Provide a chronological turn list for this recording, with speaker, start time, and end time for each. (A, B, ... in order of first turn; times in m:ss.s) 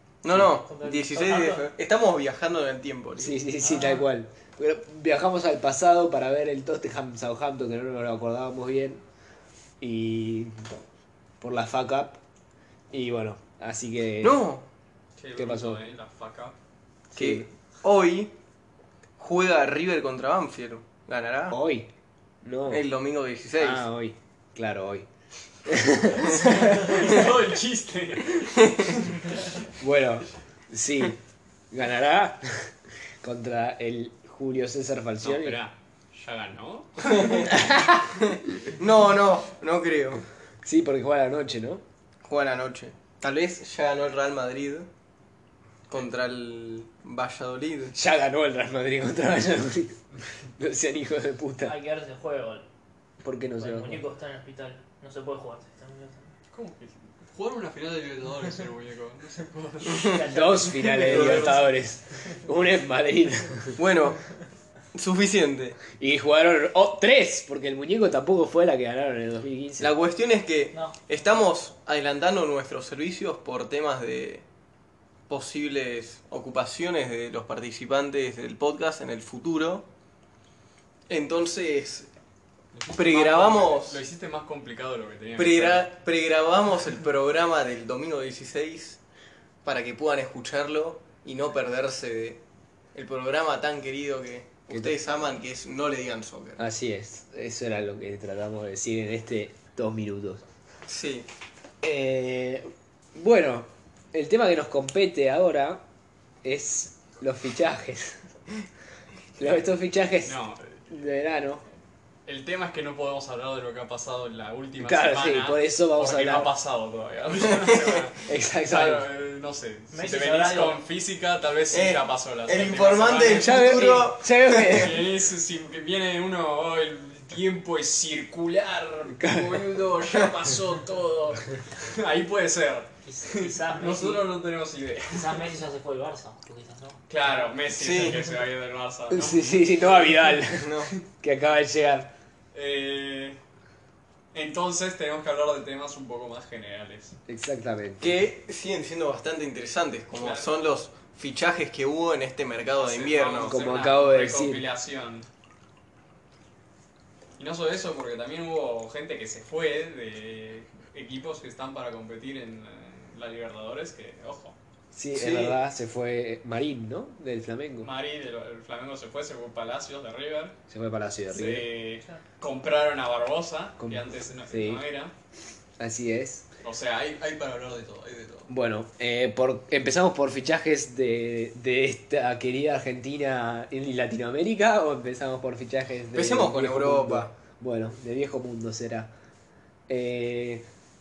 0:00.2-0:03.4 A
0:00.3-0:01.7 B
0:03.2-0:09.0 C
0:03.6-0:04.1 B
0:09.8-0:10.7 C
0:11.4-0:12.2 C
0:12.9-0:14.4 C
0:14.2-0:14.6 A
0:15.2-0:16.5 D
0:15.4-0:15.8 C
0:17.1-0:17.5 C
0:17.2-0:18.3 A
0:19.2-0:21.6 A
0:21.5-0:21.9 C
0:22.4-0:22.8 C
0:22.7-0:23.8 A
0:23.6-0:25.1 C
0:25.7-0:27.2 C
0:26.3-0:29.4 D
0:28.6-0:28.9 A
0:29.8-0:31.2 C
0:31.7-0:35.6 C
0:35.2-0:37.9 D
0:37.2-0:37.5 A
0:37.5-0:38.0 C
0:38.8-0:40.2 A
0:40.6-0:41.8 C
0:42.2-0:44.9 A
0:45.9-0:47.9 A
0:47.9-0:50.0 C
0:50.6-0:51.8 C
0:51.6-0:52.7 B
0:53.2-0:54.0 C
0:53.6-0:56.3 B
0:56.5-1:00.0 D
0:59.9-1:00.3 A
0:59.9-1:01.6 B
1:00.2-1:03.8 C
1:00.9-1:01.7 D
1:01.2-1:01.5 A
1:03.8-1:04.2 A
1:04.9-1:05.8 A
1:06.0-1:09.9 C
1:09.8-1:14.4 A
1:15.3-1:19.8 A
1:21.1-1:22.1 A
1:22.8-1:25.9 D
1:22.9-1:24.0 A
1:25.4-1:29.0 A
1:29.6-1:32.4 A
1:32.9-1:36.6 A
1:36.6-1:40.4 C
1:40.9-1:41.3 A
1:41.8-1:45.8 C
1:46.4-1:48.2 C
1:49.4-1:50.4 C
1:50.2-1:50.8 D
1:50.9-1:51.6 C
1:52.3-2:03.8 D
1:54.8-1:56.5 C
1:57.6-1:58.0 A
1:58.2-1:59.1 C
1:59.9-2:00.8 B
2:01.7-2:04.9 A
2:03.3-2:05.0 C
2:04.6-2:15.5 D
2:09.2-2:09.6 C
2:13.1-2:14.2 B
2:15.1-2:17.0 B
2:17.1-2:20.4 D
2:17.8-2:18.2 A
2:19.1-2:22.1 C
2:20.6-2:20.9 A
2:22.5-2:23.4 D
2:24.3-2:27.2 D
2:27.3-2:28.1 C
2:28.0-2:33.6 A
2:30.2-2:30.5 D
2:32.8-2:35.3 D
2:33.5-2:34.6 C
2:37.4-2:44.6 D
2:44.9-2:47.9 C
2:45.1-2:45.6 A
2:47.8-2:50.6 D
2:50.7-2:51.7 C
2:51.3-2:55.1 D
2:53.8-2:54.8 C
2:55.8-2:56.4 C
2:56.6-2:58.5 D
2:58.5-3:09.1 C
3:06.1-3:07.3 A
3:09.9-3:10.6 C